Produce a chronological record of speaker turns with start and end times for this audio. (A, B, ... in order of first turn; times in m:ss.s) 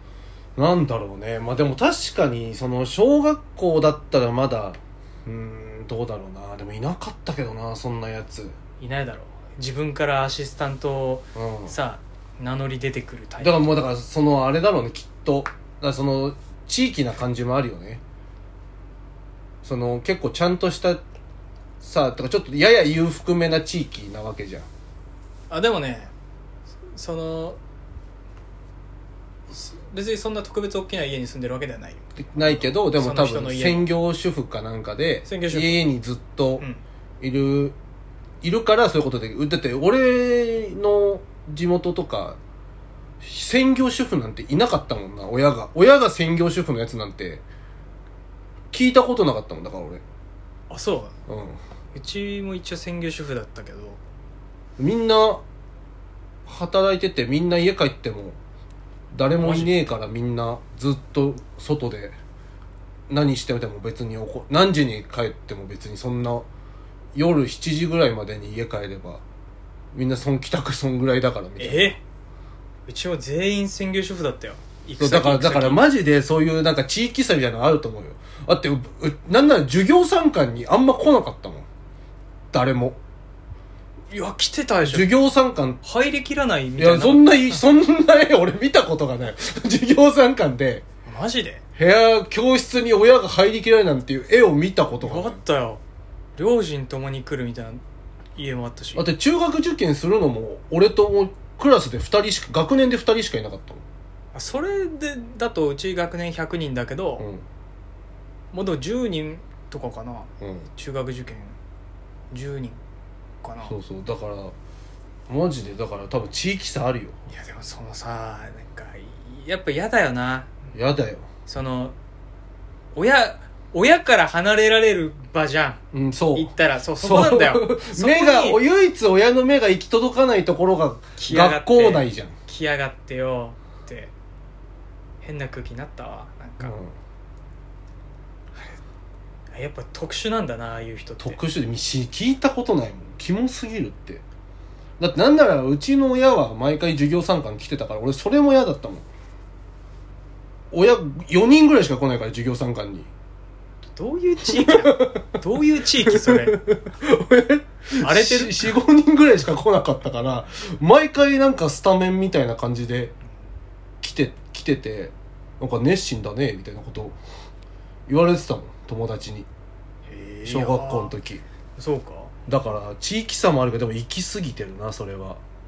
0:00.6-0:08.6 A
0:08.8-0:13.8 B
0:11.4-0:11.8 A
0:13.4-0:18.0 A
0:19.6-0:21.0 A
0:21.8-0:24.7 A
0:25.5-0:26.1 B
0:26.9-0:27.6 B
0:29.5-0:33.9 B
0:32.2-0:36.7 A
0:35.3-0:35.8 B
0:37.2-0:37.8 A
0:38.4-0:42.4 A
0:43.2-0:47.4 A
0:48.7-0:50.0 A
0:50.7-0:51.2 B
0:51.3-0:51.6 A
0:51.9-0:54.0 B
0:54.8-0:55.4 A
0:56.5-0:58.4 A
0:59.1-1:02.2 A
0:59.4-0:59.8 B
1:03.1-1:06.5 A
1:07.2-1:09.2 A
1:09.9-1:12.0 A
1:11.6-1:12.0 B
1:12.9-1:15.9 B
1:15.0-1:21.7 A
1:22.5-1:23.0 A
1:24.1-1:25.2 B
1:24.9-1:25.8 A
1:25.8-1:27.6 B
1:26.8-1:30.8 A
1:31.1-1:31.6 B
1:31.8-1:35.4 A
1:35.0-1:35.8 B
1:36.4-1:37.8 B
1:38.4-1:39.1 B
1:39.0-1:43.8 A
1:44.3-1:47.3 B
1:47.2-1:47.4 A
1:48.5-1:51.6 B
1:50.4-1:50.7 A
1:52.3-1:52.8 B
1:53.4-1:53.7 B
1:53.6-1:54.6 A
1:55.3-1:57.2 A
1:57.3-2:00.5 B
2:00.7-2:01.3 A
2:01.5-2:02.0 B
2:02.9-2:05.8 B
2:05.9-2:12.4 A
2:06.3-2:08.6 B
2:11.2-2:14.1 B
2:15.2-2:16.7 B
2:16.6-2:16.9 A
2:19.5-2:21.4 B
2:21.2-2:24.2 A
2:25.0-2:29.1 A
2:30.7-2:33.1 A
2:33.9-2:36.6 B
2:34.5-2:35.3 A
2:36.1-2:43.2 A
2:38.0-2:38.8 B
2:44.0-2:47.2 A
2:48.1-2:49.5 A
2:50.1-2:51.2 B
2:50.5-2:51.4 A
2:51.8-2:52.4 B
2:52.5-2:55.4 A